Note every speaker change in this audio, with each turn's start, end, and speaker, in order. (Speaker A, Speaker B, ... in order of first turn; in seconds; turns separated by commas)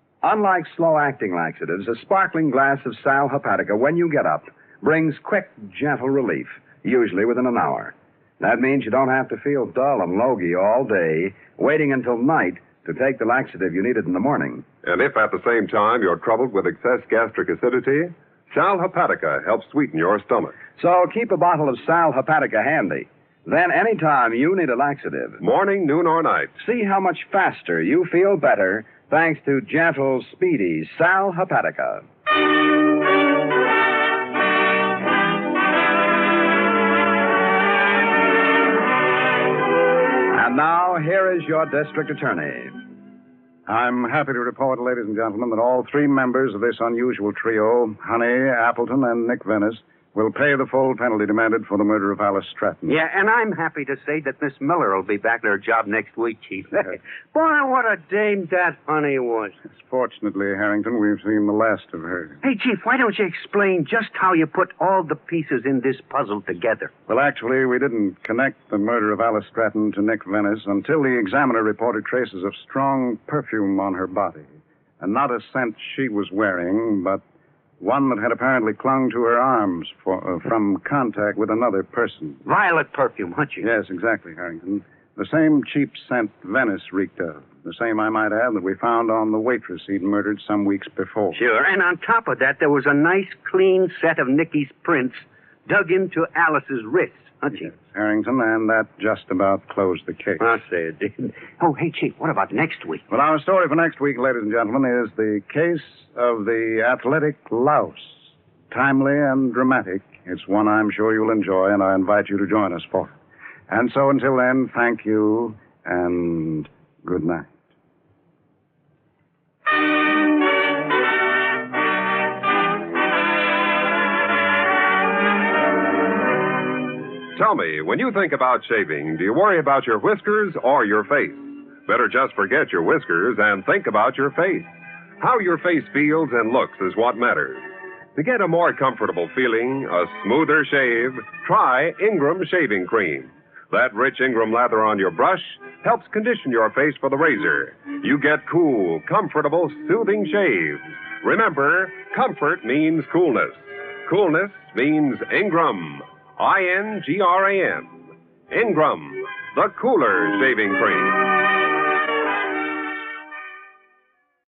Speaker A: 0.2-14.7, Speaker B: 14.8-20.6, Speaker A: 20.8-25.4, Speaker B: 25.4-26.5, Speaker A: 26.6-32.0, Speaker A: 40.3-42.9, Speaker C: 43.7-53.0, Speaker D: 52.9-59.6, Speaker C: 59.7-62.4, Speaker D: 62.4-66.9, Speaker C: 67.1-77.2, Speaker C: 77.8-82.4, Speaker D: 82.5-83.7, Speaker C: 83.6-91.4, Speaker D: 91.3-97.7, Speaker C: 97.5-100.4, Speaker D: 100.4-103.0, Speaker C: 103.1-113.1, Speaker C: 113.7-117.5, Speaker B: 127.3-161.3